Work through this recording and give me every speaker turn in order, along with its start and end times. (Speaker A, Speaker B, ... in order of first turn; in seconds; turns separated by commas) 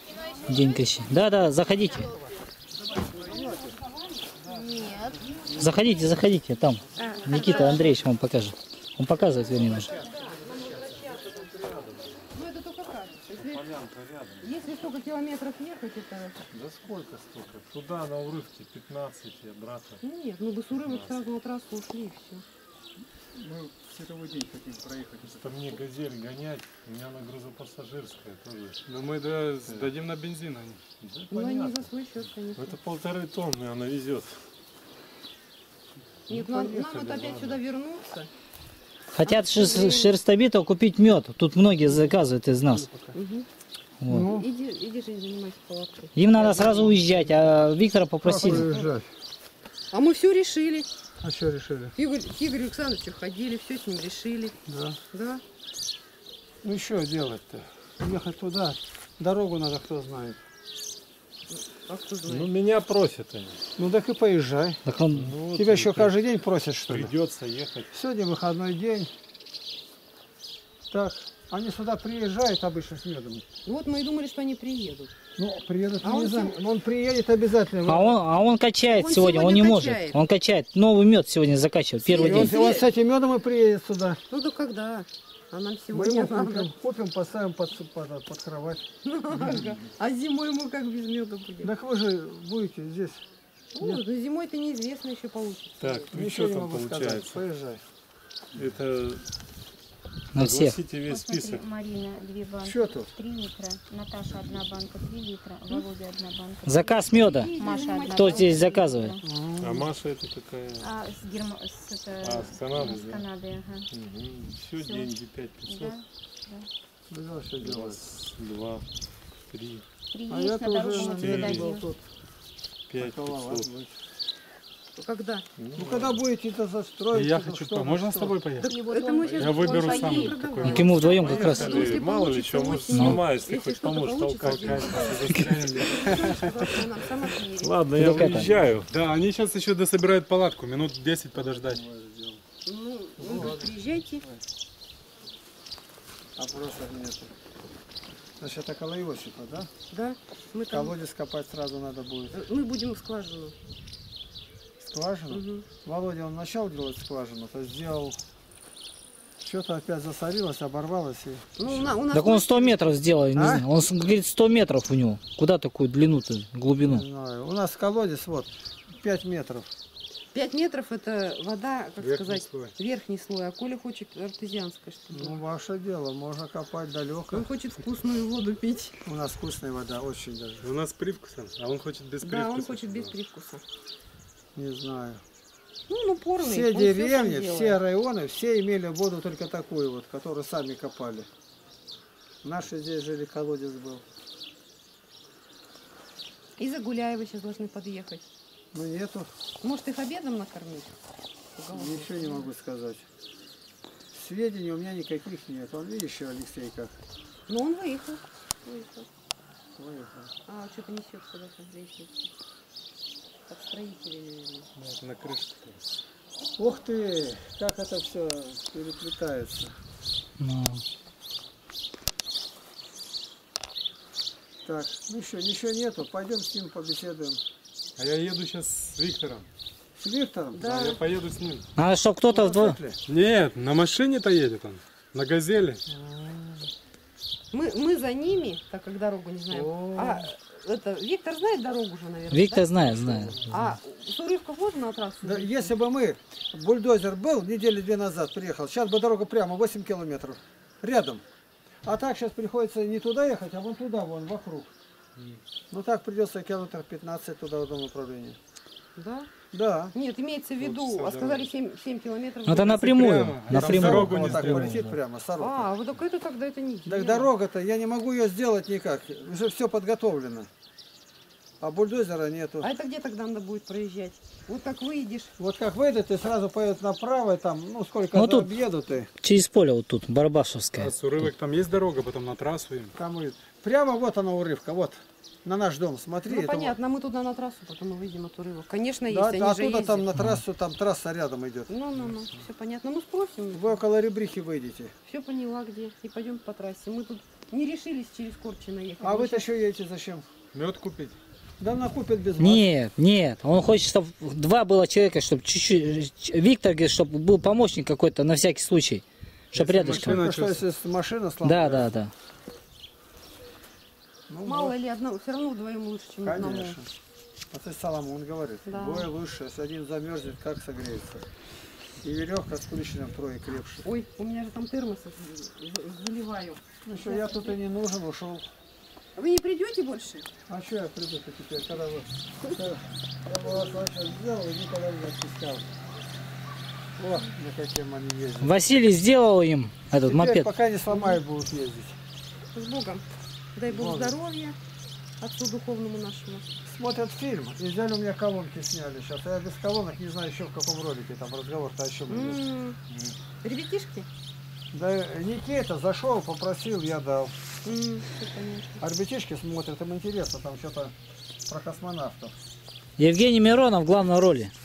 Speaker A: 0.4-2.1, Speaker B: 3.1-3.7, Speaker C: 4.5-5.1, Speaker A: 5.5-9.9, Speaker C: 7.0-8.0, Speaker C: 9.9-11.3, Speaker D: 11.0-12.2, Speaker C: 12.3-13.6, Speaker D: 13.3-14.5, Speaker C: 14.4-16.4, Speaker D: 16.5-20.0, Speaker C: 20.0-22.4, Speaker D: 20.8-21.2, Speaker B: 23.3-25.8, Speaker D: 25.2-28.8, Speaker E: 28.9-30.9, Speaker D: 31.0-31.9, Speaker C: 31.3-32.8, Speaker D: 32.5-34.4, Speaker D: 36.3-37.6, Speaker C: 36.3-38.3, Speaker A: 39.1-42.9, Speaker C: 39.2-40.2, Speaker B: 42.7-43.1, Speaker C: 43.1-43.5, Speaker A: 44.0-44.3, Speaker B: 44.1-44.5, Speaker C: 44.1-46.2, Speaker A: 46.1-48.7, Speaker B: 46.4-47.4, Speaker B: 48.2-49.1, Speaker C: 48.4-48.9, Speaker C: 49.9-50.9, Speaker B: 51.2-51.9, Speaker C: 52.0-54.5, Speaker B: 54.6-55.0, Speaker C: 55.1-55.4, Speaker B: 56.6-60.4, Speaker C: 61.5-62.5, Speaker D: 62.2-63.6, Speaker B: 63.8-64.8, Speaker A: 64.8-65.3, Speaker D: 65.1-66.2, Speaker B: 65.5-67.1, Speaker D: 66.9-67.9, Speaker B: 67.9-69.1, Speaker B: 70.9-73.4, Speaker C: 73.6-75.1, Speaker B: 75.3-78.2, Speaker C: 76.0-76.5, Speaker A: 77.8-82.6, Speaker C: 78.9-80.2, Speaker C: 82.0-82.9, Speaker B: 82.1-84.2, Speaker C: 84.3-86.7, Speaker B: 85.9-88.8, Speaker C: 89.0-91.7, Speaker B: 91.6-93.2, Speaker C: 93.7-96.1, Speaker D: 95.8-97.4, Speaker B: 96.1-97.8, Speaker D: 98.5-99.3, Speaker A: 100.3-100.8, Speaker D: 100.3-101.7, Speaker F: 101.0-109.2, Speaker B: 102.6-103.1, Speaker A: 106.6-107.5, Speaker C: 107.1-108.9, Speaker A: 108.0-109.1, Speaker B: 109.2-109.9, Speaker D: 109.6-110.9, Speaker F: 110.8-113.9, Speaker D: 112.2-113.3, Speaker D: 113.9-116.0, Speaker F: 114.8-115.1, Speaker F: 115.6-116.7, Speaker B: 117.1-118.0, Speaker D: 117.6-118.8, Speaker D: 119.5-119.8, Speaker F: 120.1-121.8, Speaker B: 120.3-122.0, Speaker D: 121.0-121.8, Speaker D: 122.9-123.7, Speaker B: 123.0-123.9, Speaker C: 125.0-125.4, Speaker D: 125.6-126.2, Speaker B: 125.8-128.4, Speaker E: 127.1-128.7, Speaker F: 128.6-130.6, Speaker C: 128.6-138.4, Speaker E: 129.3-130.9, Speaker A: 130.6-131.8, Speaker D: 131.0-136.3, Speaker F: 131.5-131.8, Speaker A: 132.9-133.2, Speaker E: 134.4-135.7, Speaker D: 137.6-138.9, Speaker A: 137.8-138.5, Speaker E: 138.9-141.8, Speaker B: 141.3-142.4, Speaker C: 142.7-144.2, Speaker B: 143.2-144.4, Speaker B: 146.3-147.3, Speaker B: 148.4-149.7, Speaker C: 149.9-150.9, Speaker B: 150.7-152.4, Speaker C: 152.3-153.5, Speaker B: 154.8-158.2, Speaker C: 155.3-155.7, Speaker B: 159.4-161.9, Speaker C: 161.6-162.9, Speaker A: 162.1-167.0, Speaker B: 163.3-163.7, Speaker B: 166.8-169.7, Speaker C: 170.3-175.4, Speaker E: 172.0-172.8, Speaker B: 175.1-177.5, Speaker C: 177.3-179.0, Speaker B: 179.0-180.7, Speaker E: 180.6-183.1, Speaker C: 182.2-183.6, Speaker B: 184.6-185.2, Speaker C: 185.9-187.8, Speaker B: 186.4-191.3, Speaker B: 192.4-194.0, Speaker C: 196.6-198.2, Speaker B: 198.7-199.3, Speaker C: 199.6-200.9, Speaker C: 201.5-202.5, Speaker B: 201.7-203.1, Speaker B: 204.1-206.9, Speaker C: 207.5-209.1, Speaker B: 209.8-210.3, Speaker C: 210.4-212.2, Speaker C: 213.5-214.7, Speaker E: 214.8-215.8, Speaker B: 216.6-219.7, Speaker A: 220.4-220.8, Speaker B: 224.6-227.4, Speaker E: 228.0-229.5, Speaker B: 230.0-230.9, Speaker C: 230.5-231.0, Speaker E: 230.7-231.7, Speaker A: 231.8-232.8, Speaker B: 232.3-233.0, Speaker E: 233.1-235.8, Speaker B: 235.9-236.7, Speaker C: 237.5-245.7, Speaker B: 239.5-240.3, Speaker A: 242.3-243.4, Speaker B: 242.9-243.6, Speaker B: 245.2-251.2, Speaker B: 251.8-254.7, Speaker E: 255.2-255.4, Speaker B: 255.7-258.4, Speaker C: 258.9-259.3, Speaker B: 259.5-259.9, Speaker C: 259.9-263.2, Speaker E: 260.6-261.5, Speaker A: 262.4-264.9, Speaker E: 262.7-264.8, Speaker B: 263.5-265.7, Speaker C: 265.4-267.3, Speaker B: 266.9-270.5, Speaker B: 271.6-272.7, Speaker C: 272.6-275.3, Speaker B: 275.4-279.1, Speaker A: 278.1-278.5, Speaker A: 279.2-281.3, Speaker E: 280.8-282.9, Speaker B: 282.9-286.8, Speaker C: 286.2-290.1, Speaker B: 289.1-291.7, Speaker C: 291.7-293.8, Speaker B: 293.5-294.9, Speaker C: 295.1-299.5, Speaker B: 299.0-300.2, Speaker E: 300.5-301.2, Speaker B: 301.6-302.7, Speaker A: 302.4-310.2, Speaker E: 309.5-310.6, Speaker B: 309.8-311.9, Speaker A: 311.4-312.1, Speaker B: 314.3-314.8, Speaker C: 314.4-316.8, Speaker B: 316.2-316.9, Speaker B: 317.5-321.2, Speaker C: 318.6-319.1, Speaker B: 322.0-323.9, Speaker C: 323.8-327.6, Speaker B: 326.8-328.5, Speaker C: 329.1-330.3, Speaker B: 330.5-335.6, Speaker B: 337.0-338.6, Speaker A: 338.4-340.5, Speaker B: 340.0-342.0, Speaker C: 340.9-341.2, Speaker C: 342.5-344.6, Speaker B: 343.7-344.1, Speaker C: 345.2-346.4, Speaker B: 346.6-352.4, Speaker C: 352.1-352.8, Speaker E: 352.9-353.1, Speaker C: 353.4-354.1, Speaker B: 354.7-357.4, Speaker C: 357.6-358.8, Speaker B: 358.8-360.9, Speaker B: 361.5-362.3, Speaker A: 363.0-364.5